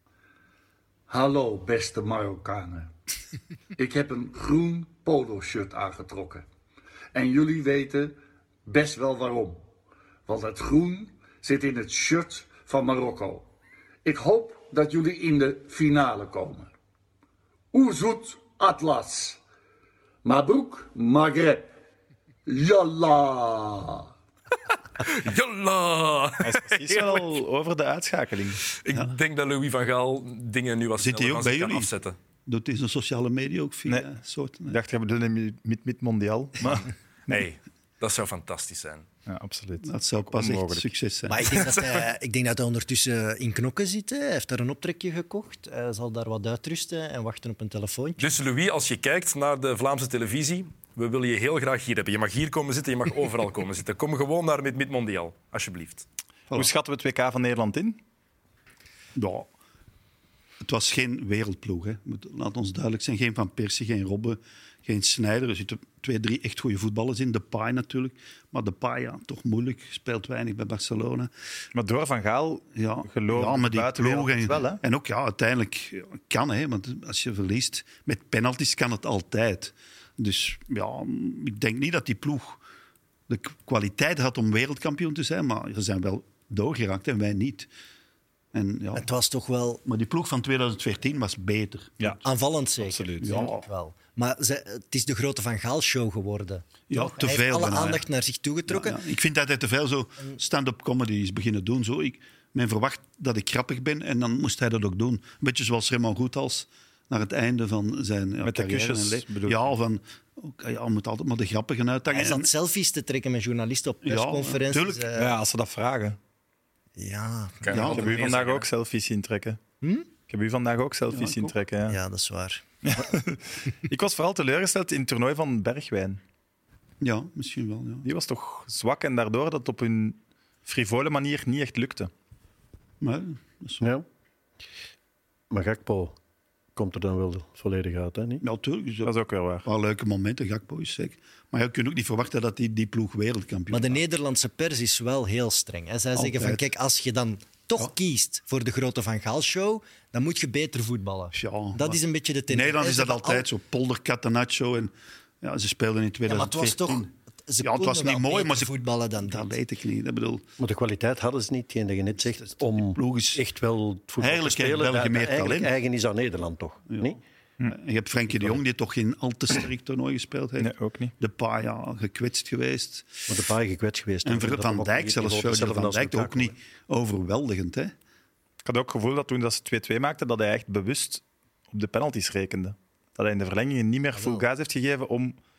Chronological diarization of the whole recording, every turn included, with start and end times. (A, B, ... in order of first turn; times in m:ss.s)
0:01.1-0:02.9 A
0:03.8-0:06.5 A
0:07.1-0:09.6 A
0:10.3-0:13.5 A
0:14.0-0:16.7 A
0:17.7-0:19.4 A
0:20.2-0:21.7 A
0:22.5-0:24.1 A
0:25.0-0:27.3 B
0:26.4-0:28.6 C
0:28.8-0:32.2 B
0:31.0-0:31.9 D
0:32.5-0:34.8 D
0:34.7-0:37.4 C
0:37.3-0:39.1 B
0:39.3-0:40.9 C
0:39.8-0:41.5 D
0:41.3-0:48.3 E
0:41.5-0:42.0 B
0:48.2-0:56.1 B
0:56.5-0:58.0 C
0:59.2-0:59.5 D
1:00.6-1:11.3 D
1:11.7-1:14.8 C
1:12.7-1:22.6 D
1:23.3-1:27.7 D
1:28.5-1:29.1 D
1:29.0-1:29.8 E
1:29.9-1:32.2 D
1:32.2-1:39.0 E
1:32.8-1:33.4 C
1:33.2-1:33.7 D
1:36.9-1:38.0 D
1:38.7-1:52.5 D
1:48.4-1:49.7 C
1:52.1-1:55.3 E
1:54.0-1:55.1 D
1:55.2-1:56.2 C
1:57.0-1:57.9 E
1:57.6-1:58.6 B
1:57.7-1:58.3 D
1:57.8-1:59.6 C
1:59.8-2:00.1 E
2:00.3-2:02.0 C
2:01.1-2:01.6 D
2:01.9-2:02.6 E
2:02.8-2:06.2 C
2:07.0-2:08.1 D
2:08.0-2:12.1 C
2:13.0-2:13.8 D
2:13.8-2:14.0 F
2:15.5-2:16.2 F
2:16.8-2:18.4 F
2:18.4-2:24.0 D
2:19.0-2:19.7 C
2:23.7-2:33.5 E
2:26.2-2:26.6 D
2:31.3-2:32.0 D
2:32.5-2:37.1 D
2:36.3-2:39.5 E
2:37.6-2:40.5 D
2:40.6-2:47.2 F
2:42.3-2:43.4 D
2:44.2-2:45.7 D
2:46.9-2:53.3 D
2:50.6-2:51.1 C
2:53.3-2:56.6 F
2:54.2-2:57.9 D
2:58.6-3:05.4 C
3:04.2-3:04.4 E